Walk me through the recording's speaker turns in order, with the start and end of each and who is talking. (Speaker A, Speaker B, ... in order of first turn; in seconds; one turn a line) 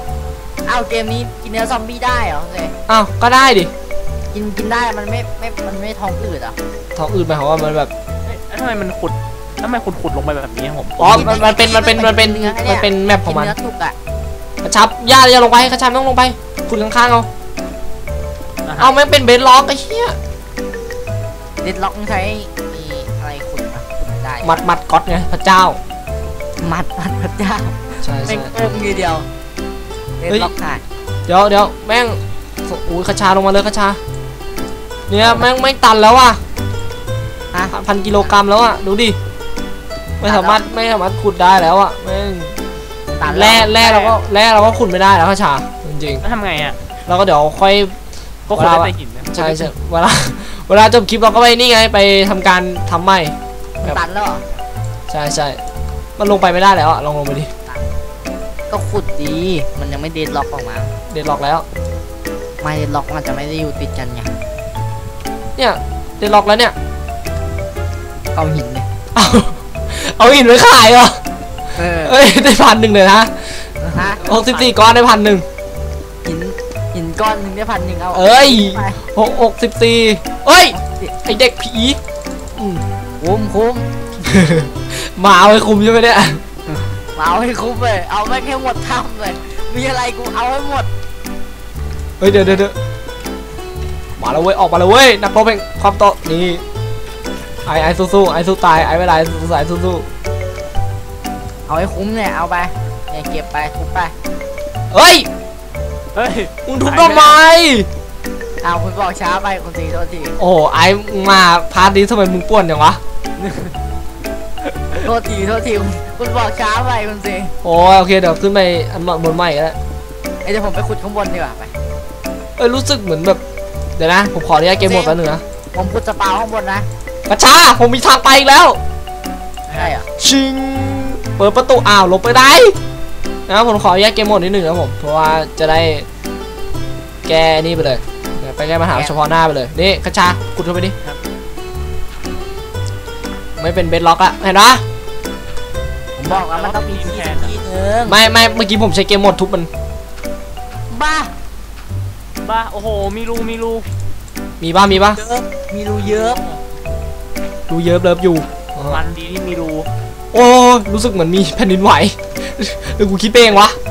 Speaker A: 0.7-2.7
Speaker B: 2.9-3.7
Speaker A: 4.3-6.5
Speaker B: 7.0-7.9
Speaker C: 8.2-11.3
Speaker B: 11.0-13.5
Speaker A: 11.0-13.9
Speaker B: 14.6-17.3
Speaker C: 18.6-18.9
Speaker B: 18.8-20.2
Speaker A: 21.6-24.6
Speaker B: 24.4-25.8
Speaker A: 26.6-29.3
Speaker B: 28.0-28.5
Speaker A: 30.2-30.8
Speaker B: 31.3-34.0
Speaker B: 35.1-36.4
Speaker B: 37.7-39.2
Speaker B: 40.2-42.5
Speaker A: 40.2-40.6
Speaker A: 43.2-43.7
Speaker C: 43.2-44.2
Speaker B: 43.2-46.2
Speaker C: 46.2-46.8
Speaker B: 47.1-47.9
Speaker C: 48.5-49.7
Speaker B: 48.5-54.0
Speaker A: 53.8-54.4
Speaker B: 55.1-55.6
Speaker B: 56.2-57.5
Speaker A: 58.7-60.9
Speaker B: 61.1-61.6
Speaker A: 62.6-64.3
Speaker B: 65.6-66.7
Speaker A: 68.3-68.9
Speaker B: 69.1-71.2
Speaker A: 71.8-72.2
Speaker B: 72.0-73.6
Speaker A: 73.8-74.2
Speaker C: 74.0-74.7
Speaker B: 74.2-75.4
Speaker A: 76.2-79.0
Speaker B: 78.1-82.0
Speaker A: 80.7-81.1
Speaker B: 82.5-82.8
Speaker A: 83.2-83.9
Speaker B: 84.2-86.4
Speaker A: 87.2-90.9
Speaker B: 92.2-92.7
Speaker B: 94.2-96.6
Speaker B: 97.7-100.1
Speaker A: 101.7-104.1
Speaker B: 104.9-105.3
Speaker C: 106.1-107.4
Speaker B: 106.7-107.9
Speaker A: 108.6-110.4
Speaker B: 110.4-113.0
Speaker C: 113.4-113.8
Speaker C: 114.7-115.0
Speaker A: 114.9-117.5
Speaker B: 117.6-119.8
Speaker A: 120.4-121.7
Speaker B: 122.6-123.4
Speaker B: 124.0-125.4
Speaker A: 124.8-125.2
Speaker A: 125.7-126.9
Speaker B: 127.3-128.8
Speaker C: 129.7-129.9
Speaker A: 129.8-130.0
Speaker B: 130.2-132.8
Speaker B: 133.5-136.1
Speaker B: 137.2-140.9
Speaker B: 143.6-144.8
Speaker A: 146.2-148.2
Speaker C: 146.3-147.5
Speaker B: 148.1-149.7
Speaker A: 150.9-151.3
Speaker C: 152.4-153.9
Speaker B: 154.6-155.2
Speaker A: 154.9-156.4
Speaker C: 156.0-156.6
Speaker B: 157.7-159.0
Speaker C: 158.9-159.9
Speaker B: 160.3-163.8